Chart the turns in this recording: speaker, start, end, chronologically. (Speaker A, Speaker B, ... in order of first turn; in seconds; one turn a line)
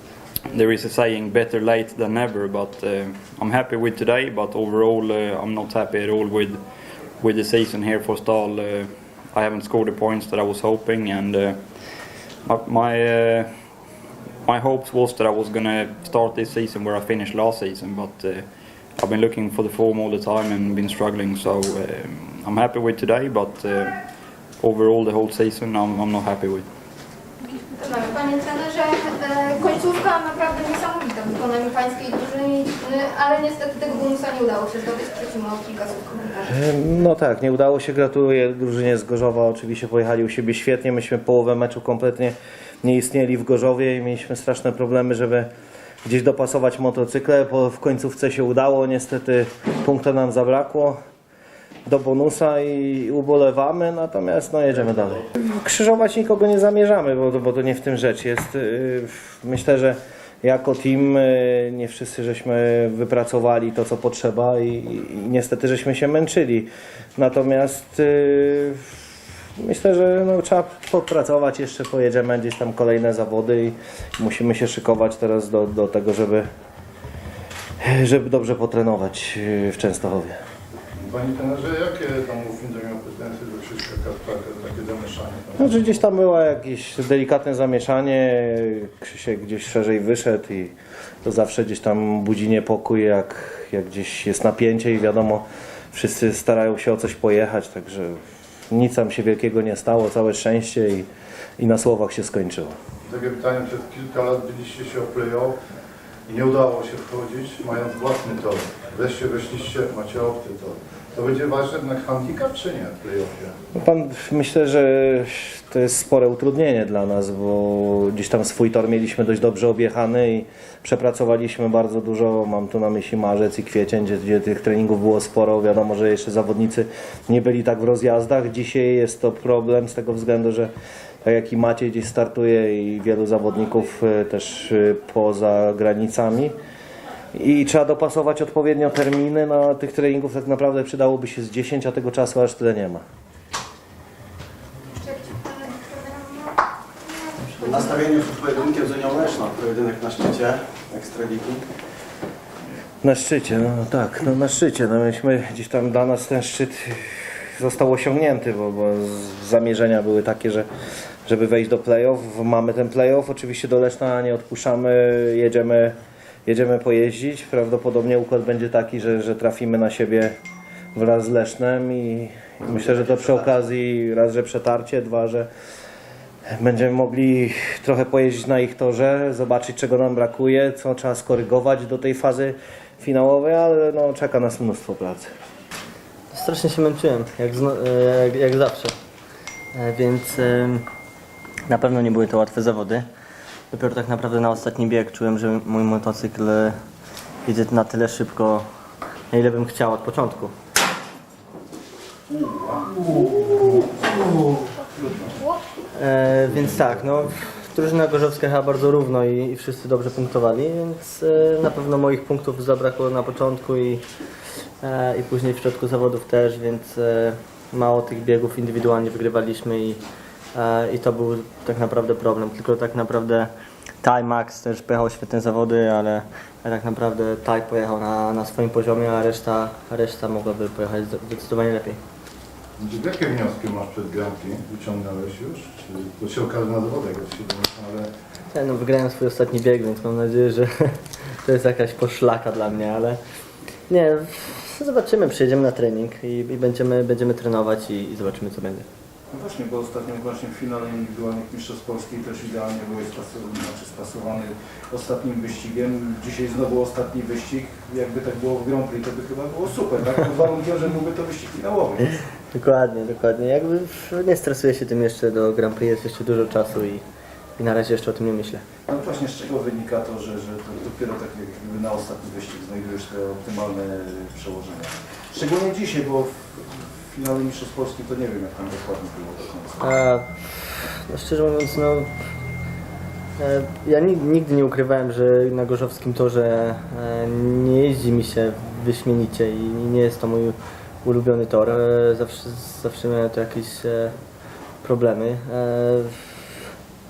Speaker A: 0.5-6.6
Speaker A: 7.2-11.8
Speaker A: 12.4-13.8
Speaker A: 14.5-23.9
Speaker A: 24.6-26.7
Speaker B: 27.5-36.5
Speaker C: 36.5-45.5
Speaker C: 46.0-51.0
Speaker C: 51.9-69.0
Speaker C: 69.6-76.5
Speaker C: 77.8-80.4
Speaker D: 81.0-85.8
Speaker C: 85.6-101.1
Speaker C: 101.6-102.7
Speaker D: 103.0-105.6
Speaker D: 106.3-113.5
Speaker C: 113.8-130.7
Speaker C: 131.2-136.5
Speaker C: 137.3-143.0
Speaker B: 145.0-148.6
Speaker E: 147.7-151.7
Speaker C: 153.0-160.7
Speaker C: 161.3-166.0
Speaker C: 166.5-170.3
Speaker C: 170.9-175.5
Speaker C: 176.6-185.3
Speaker F: 186.3-188.9
Speaker F: 189.7-190.8
Speaker F: 191.7-193.1
Speaker F: 193.7-196.7
Speaker F: 197.5-198.7
Speaker F: 199.3-200.5
Speaker D: 202.3-205.3
Speaker F: 206.0-214.0
Speaker F: 214.8-220.0
Speaker F: 220.5-223.5
Speaker F: 224.0-232.0
Speaker D: 232.8-238.1
Speaker F: 238.5-240.7
Speaker F: 241.4-243.2
Speaker F: 243.9-248.8
Speaker G: 249.3-262.1
Speaker F: 262.5-267.0
Speaker F: 267.6-268.6
Speaker G: 268.9-276.5
Speaker D: 276.7-277.0
Speaker G: 277.1-279.9
Speaker F: 279.8-282.1
Speaker F: 283.4-294.1
Speaker F: 294.8-296.3